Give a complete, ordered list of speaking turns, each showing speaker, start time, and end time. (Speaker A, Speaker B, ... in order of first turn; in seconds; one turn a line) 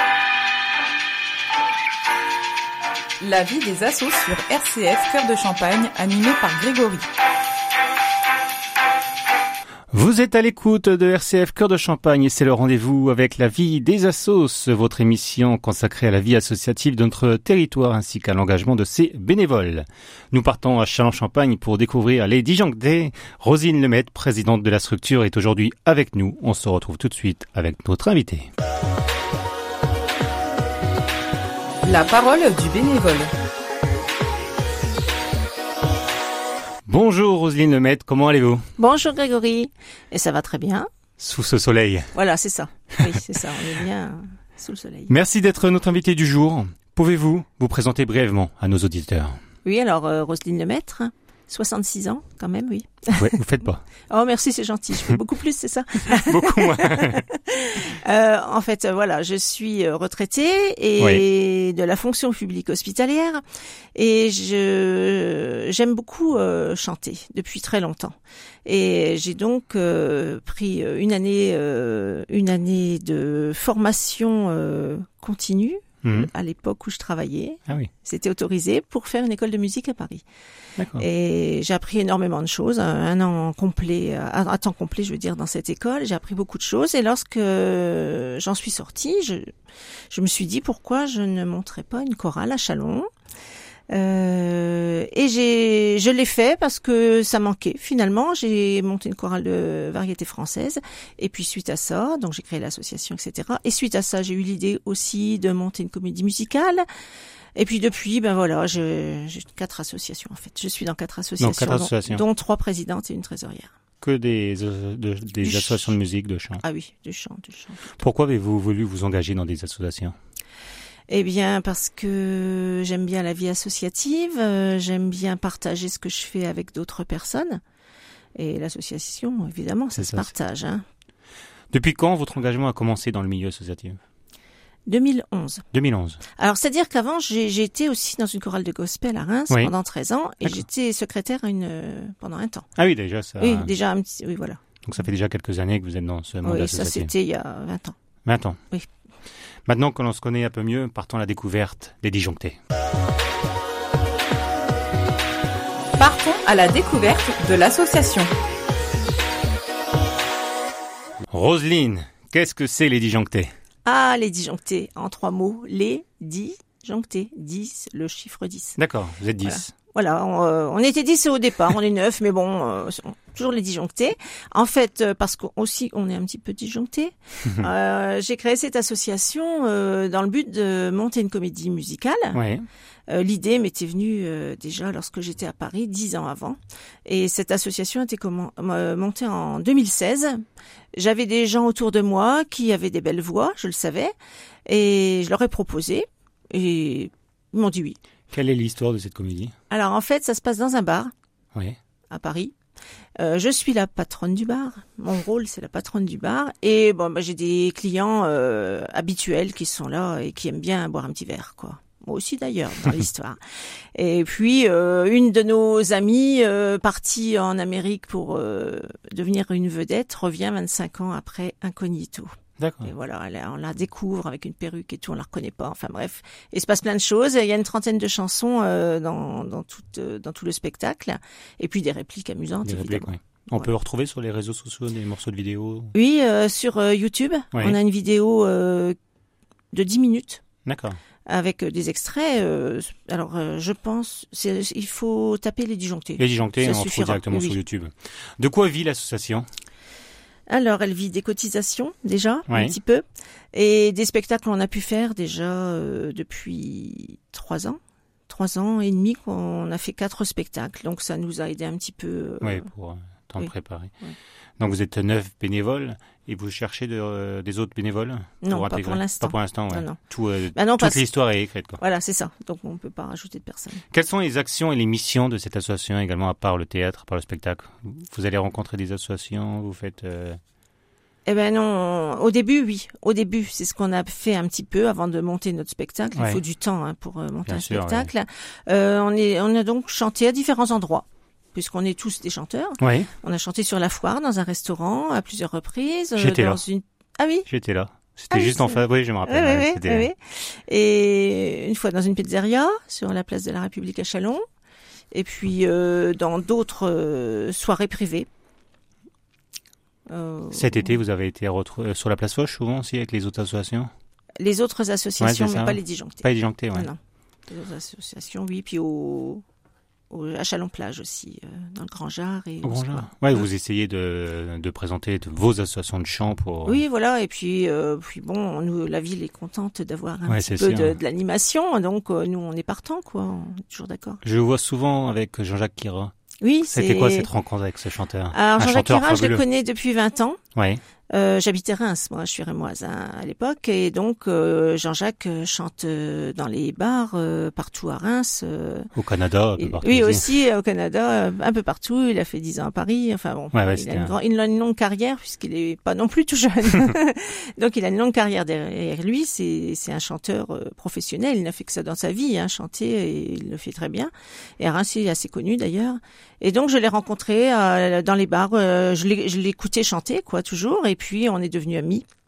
Speaker A: 3.2-7.0
Speaker B: 9.9-28.5
Speaker A: 31.8-33.3
Speaker B: 36.9-38.6
Speaker C: 38.8-40.9
Speaker B: 41.2-42.1
Speaker C: 42.1-45.1
Speaker B: 45.1-49.4
Speaker C: 49.6-53.3
Speaker B: 53.2-53.8
Speaker C: 54.1-63.4
Speaker B: 56.1-57.2
Speaker B: 61.0-61.2
Speaker C: 63.9-80.2
Speaker B: 76.0-76.3
Speaker B: 80.8-81.0
Speaker C: 81.0-89.5
Speaker C: 90.1-93.1
Speaker C: 93.9-106.8
Speaker C: 107.5-113.7
Speaker B: 111.4-112.2
Speaker B: 114.0-116.6
Speaker C: 115.4-115.9
Speaker C: 116.6-118.0
Speaker B: 118.0-120.1
Speaker C: 121.1-127.6
Speaker C: 128.3-130.8
Speaker B: 129.9-130.3
Speaker B: 131.7-134.0
Speaker C: 134.9-135.7
Speaker B: 135.7-136.2
Speaker C: 136.3-142.7
Speaker B: 142.8-143.7
Speaker C: 143.4-144.6
Speaker B: 144.8-147.1
Speaker C: 146.4-147.9
Speaker B: 148.2-148.6
Speaker B: 149.7-152.6
Speaker A: 156.0-158.3
Speaker B: 161.3-163.5
Speaker C: 163.8-168.8
Speaker B: 168.8-169.7
Speaker C: 169.4-182.4
Speaker B: 182.3-182.7
Speaker C: 183.1-190.4
Speaker C: 190.9-194.1
Speaker C: 194.7-198.0
Speaker B: 198.3-199.5
Speaker C: 199.7-201.1
Speaker C: 202.1-202.5
Speaker C: 203.2-213.4
Speaker C: 213.9-233.7
Speaker B: 222.6-222.9
Speaker B: 232.6-235.9
Speaker C: 235.9-238.9
Speaker C: 239.7-240.4
Speaker B: 240.7-241.0
Speaker C: 241.3-247.6
Speaker B: 246.2-249.5
Speaker C: 250.5-257.8
Speaker B: 252.5-252.8
Speaker C: 258.3-262.7
Speaker B: 262.4-263.9
Speaker B: 264.6-271.8
Speaker C: 268.4-270.0
Speaker C: 270.5-271.0
Speaker C: 271.8-273.8
Speaker B: 273.9-280.4
Speaker C: 281.2-297.5
Speaker B: 286.1-286.4
Speaker B: 287.4-288.1
Speaker B: 292.8-293.1
Speaker B: 296.1-296.6
Speaker B: 297.5-300.1
Speaker C: 298.3-304.4
Speaker C: 305.1-308.3
Speaker C: 310.1-311.0
Speaker B: 310.5-313.9
Speaker C: 314.4-319.4
Speaker B: 315.2-316.9
Speaker C: 320.1-323.4
Speaker B: 322.6-326.8
Speaker C: 326.6-334.2
Speaker B: 330.3-331.0
Speaker B: 334.2-336.1
Speaker C: 336.4-337.3
Speaker B: 336.7-339.4
Speaker C: 338.3-340.4
Speaker B: 340.5-340.8
Speaker C: 341.1-348.9
Speaker B: 348.9-350.4
Speaker C: 349.6-372.0
Speaker B: 353.5-354.1